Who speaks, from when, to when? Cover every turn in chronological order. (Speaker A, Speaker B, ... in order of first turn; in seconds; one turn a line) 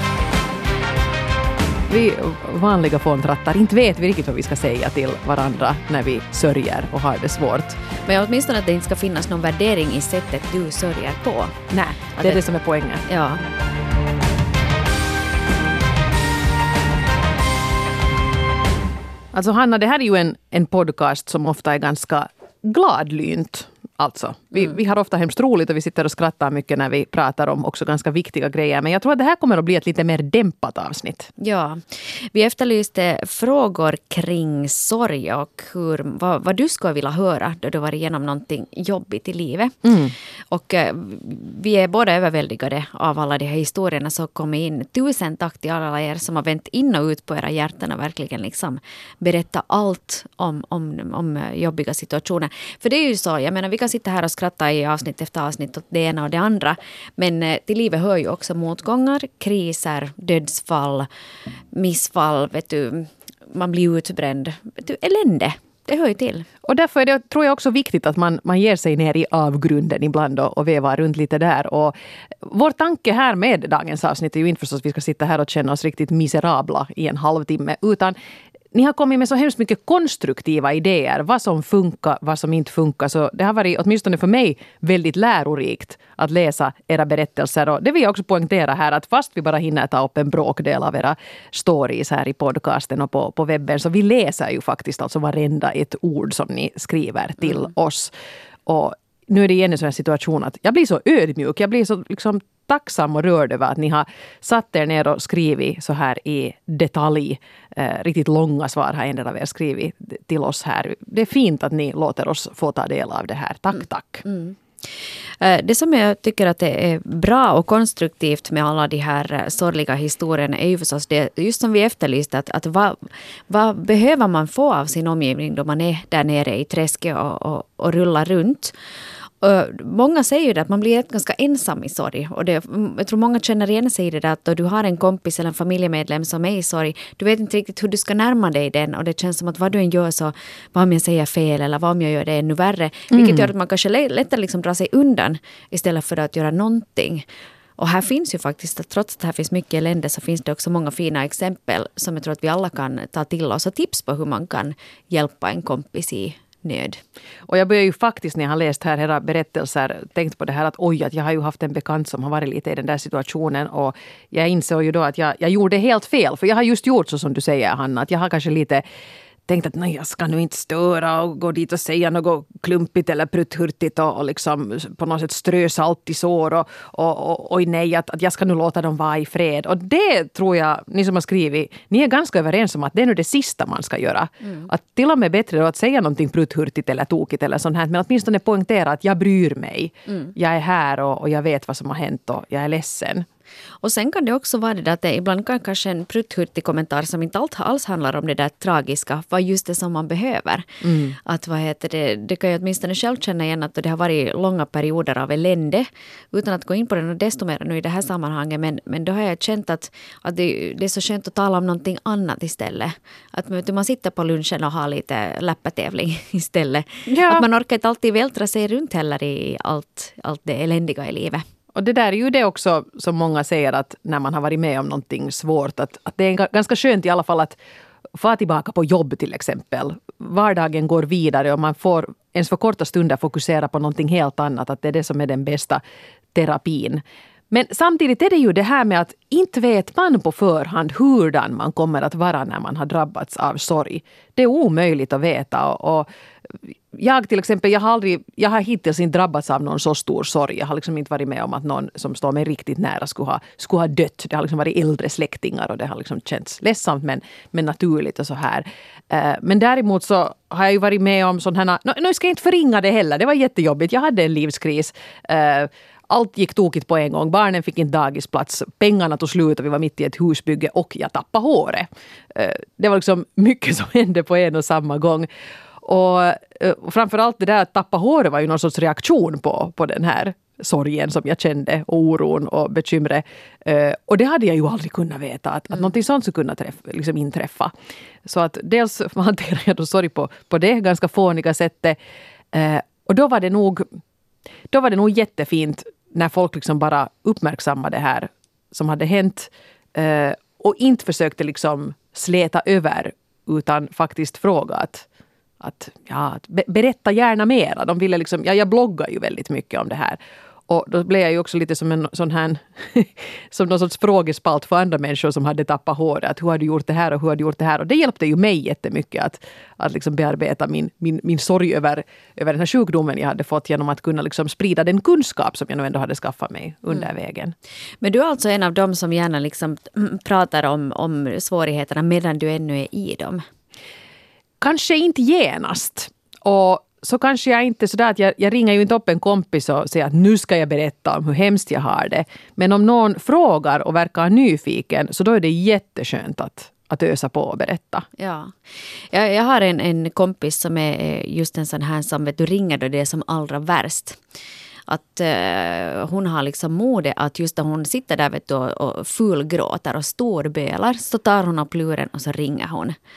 Speaker A: 1.9-7.8
Speaker B: 8.0-11.6
Speaker A: 11.7-13.1
Speaker B: 12.2-12.4
Speaker B: 13.1-13.4
Speaker A: 19.3-31.3
Speaker B: 31.4-39.8
Speaker A: 39.8-40.1
Speaker B: 40.5-61.1
Speaker B: 61.7-66.5
Speaker A: 66.6-78.1
Speaker A: 78.7-98.1
Speaker A: 98.7-114.2
Speaker B: 114.2-128.7
Speaker B: 129.4-147.2
Speaker A: 143.1-143.5
Speaker B: 147.8-157.0
Speaker A: 157.5-168.8
Speaker A: 169.5-193.2
Speaker B: 184.4-184.7
Speaker B: 190.1-190.3
Speaker B: 193.8-221.4
Speaker A: 200.8-201.2
Speaker A: 217.1-217.4
Speaker A: 221.7-227.6
Speaker A: 228.1-235.8
Speaker A: 236.3-275.3
Speaker A: 275.8-287.7
Speaker A: 288.2-292.0
Speaker A: 292.5-293.9
Speaker A: 294.7-305.1
Speaker A: 305.6-327.5
Speaker B: 328.0-333.4
Speaker A: 334.6-348.1
Speaker B: 348.2-348.6
Speaker B: 349.1-354.2
Speaker B: 354.9-362.9